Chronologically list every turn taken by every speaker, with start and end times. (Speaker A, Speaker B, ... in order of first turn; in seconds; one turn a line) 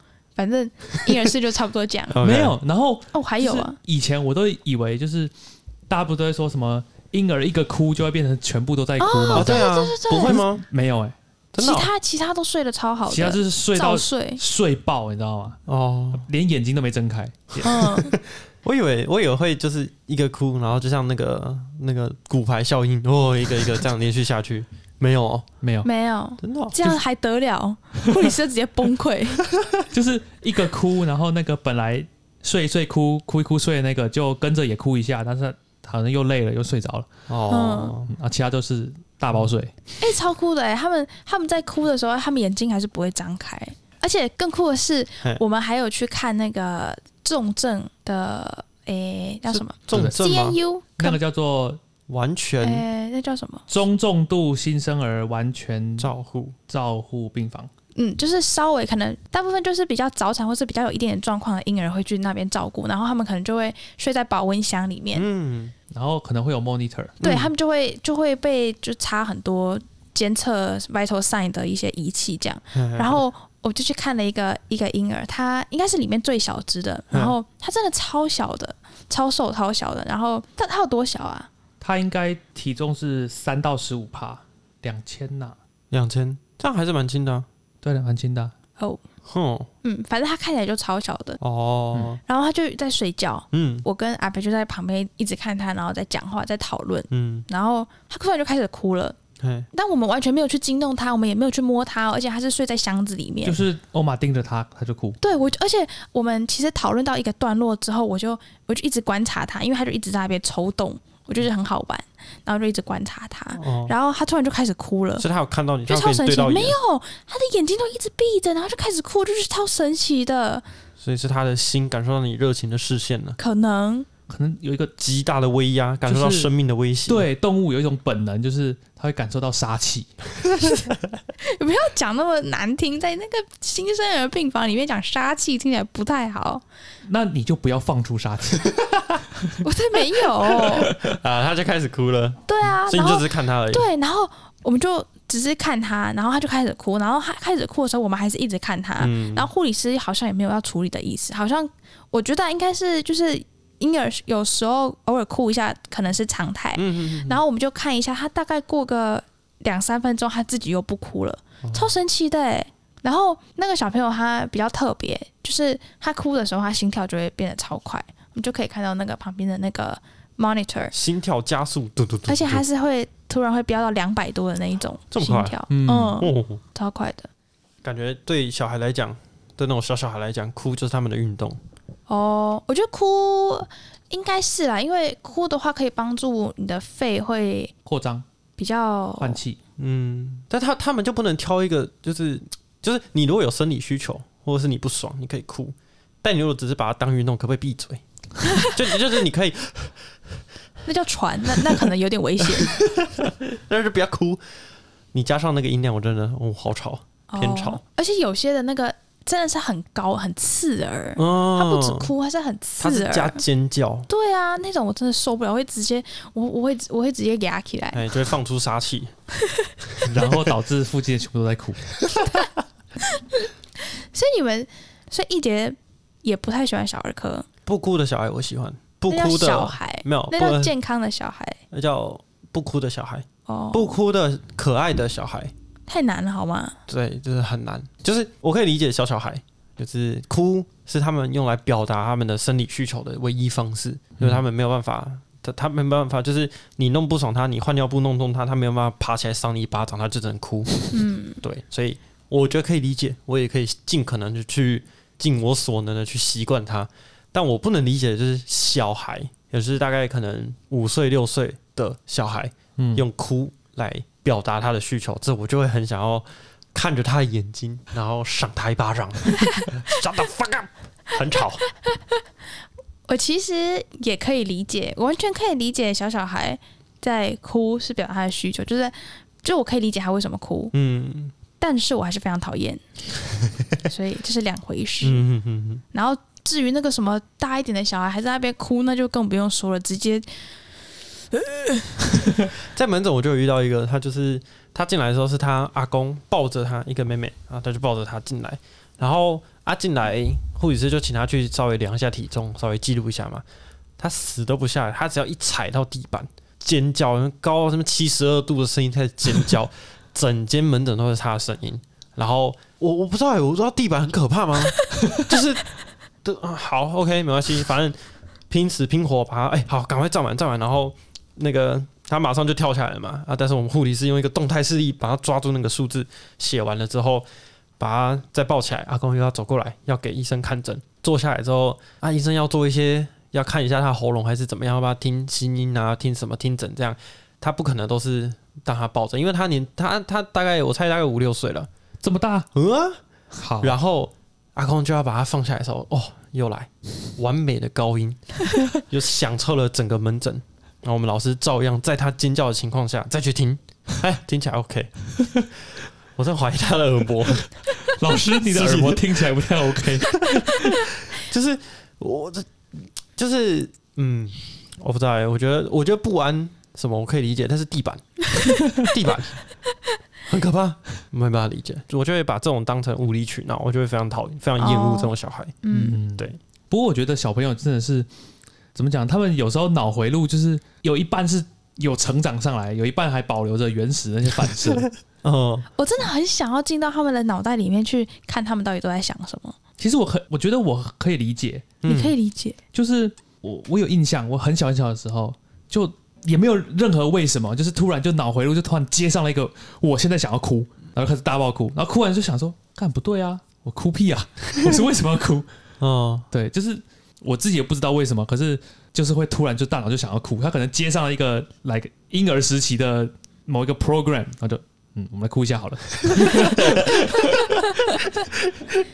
Speaker A: 0.4-2.2
Speaker B: 2.1-2.5
Speaker C: 2.2-5.3
Speaker A: 3.1-3.8
Speaker C: 5.9-9.7
Speaker A: 9.0-10.4
Speaker B: 9.3-10.6
Speaker C: 10.2-11.2
Speaker B: 11.5-11.9
Speaker A: 11.6-14.4
Speaker C: 13.1-15.6
Speaker B: 15.7-16.3
Speaker C: 16.1-17.9
Speaker B: 17.6-25.5
Speaker A: 17.6-18.1
Speaker C: 25.6-25.9
Speaker A: 25.8-29.5
Speaker B: 26.4-26.8
Speaker C: 29.9-37.1
Speaker B: 37.3-38.1
Speaker A: 37.5-38.0
Speaker C: 38.1-39.7
Speaker A: 40.0-51.2
Speaker B: 49.5-50.6
Speaker C: 49.9-50.2
Speaker C: 51.0-51.8
Speaker B: 52.1-52.9
Speaker A: 52.6-53.6
Speaker C: 53.7-56.1
Speaker B: 56.0-56.6
Speaker C: 56.7-57.7
Speaker A: 58.0-65.3
Speaker B: 65.1-65.7
Speaker C: 65.9-67.2
Speaker B: 67.2-67.5
Speaker A: 67.2-81.5
Speaker B: 72.7-73.2
Speaker C: 81.8-85.6
Speaker B: 85.9-87.5
Speaker C: 87.8-88.5
Speaker B: 89.2-89.7
Speaker A: 89.8-91.4
Speaker B: 91.4-92.2
Speaker A: 92.3-99.2
Speaker B: 93.5-93.9
Speaker B: 97.1-97.5
Speaker B: 99.4-99.7
Speaker A: 99.7-103.7
Speaker C: 103.5-105.2
Speaker A: 105.2-115.3
Speaker B: 113.6-113.9
Speaker B: 115.2-116.8
Speaker A: 115.9-120.7
Speaker B: 121.0-123.4
Speaker A: 123.4-124.1
Speaker C: 124.3-124.9
Speaker B: 125.0-127.3
Speaker C: 126.0-126.5
Speaker C: 127.1-130.2
Speaker A: 131.4-136.6
Speaker C: 137.1-139.6
Speaker A: 139.6-140.9
Speaker B: 140.8-143.9
Speaker A: 142.5-170.9
Speaker B: 149.0-149.5
Speaker B: 156.8-157.4
Speaker B: 161.6-161.9
Speaker B: 170.9-172.7
Speaker A: 172.3-177.3
Speaker B: 175.1-175.6
Speaker C: 175.7-176.2
Speaker B: 176.2-176.6
Speaker B: 177.8-181.6
Speaker A: 182.1-187.7
Speaker C: 187.9-188.3
Speaker A: 188.6-189.4
Speaker C: 189.2-189.6
Speaker B: 189.8-200.1
Speaker A: 200.9-202.8
Speaker B: 202.4-204.4
Speaker B: 205.1-207.8
Speaker A: 207.3-213.4
Speaker B: 211.2-212.1
Speaker B: 212.8-214.1
Speaker A: 214.1-218.1
Speaker B: 217.9-219.1
Speaker B: 220.0-220.6
Speaker C: 220.0-221.9
Speaker A: 223.1-227.5
Speaker B: 227.7-230.7
Speaker A: 229.1-231.6
Speaker B: 231.7-235.5
Speaker A: 233.5-234.0
Speaker A: 235.9-236.8
Speaker B: 236.9-271.6
Speaker A: 250.9-251.4
Speaker C: 262.8-263.1
Speaker A: 271.9-272.1
Speaker A: 273.1-280.8
Speaker B: 280.7-281.3
Speaker A: 281.6-282.8
Speaker A: 283.8-285.2
Speaker B: 285.0-285.8
Speaker A: 285.9-290.3
Speaker B: 292.6-303.4
Speaker B: 304.0-315.7
Speaker B: 316.2-318.0
Speaker B: 318.5-327.3
Speaker B: 327.8-341.7
Speaker C: 342.0-342.5
Speaker B: 342.5-343.0
Speaker C: 343.3-343.8
Speaker B: 343.6-355.1
Speaker B: 356.2-357.6
Speaker C: 357.8-360.8
Speaker B: 358.4-360.4
Speaker B: 361.1-368.2
Speaker B: 368.8-369.4
Speaker B: 370.3-375.6
Speaker A: 374.6-376.0
Speaker C: 375.7-378.1
Speaker C: 378.8-384.9
Speaker B: 384.6-385.7
Speaker A: 385.8-389.6
Speaker C: 389.8-391.7
Speaker B: 391.8-392.1
Speaker A: 391.9-392.6
Speaker C: 392.7-405.5
Speaker B: 405.8-406.3
Speaker C: 406.3-417.6
Speaker A: 417.5-418.1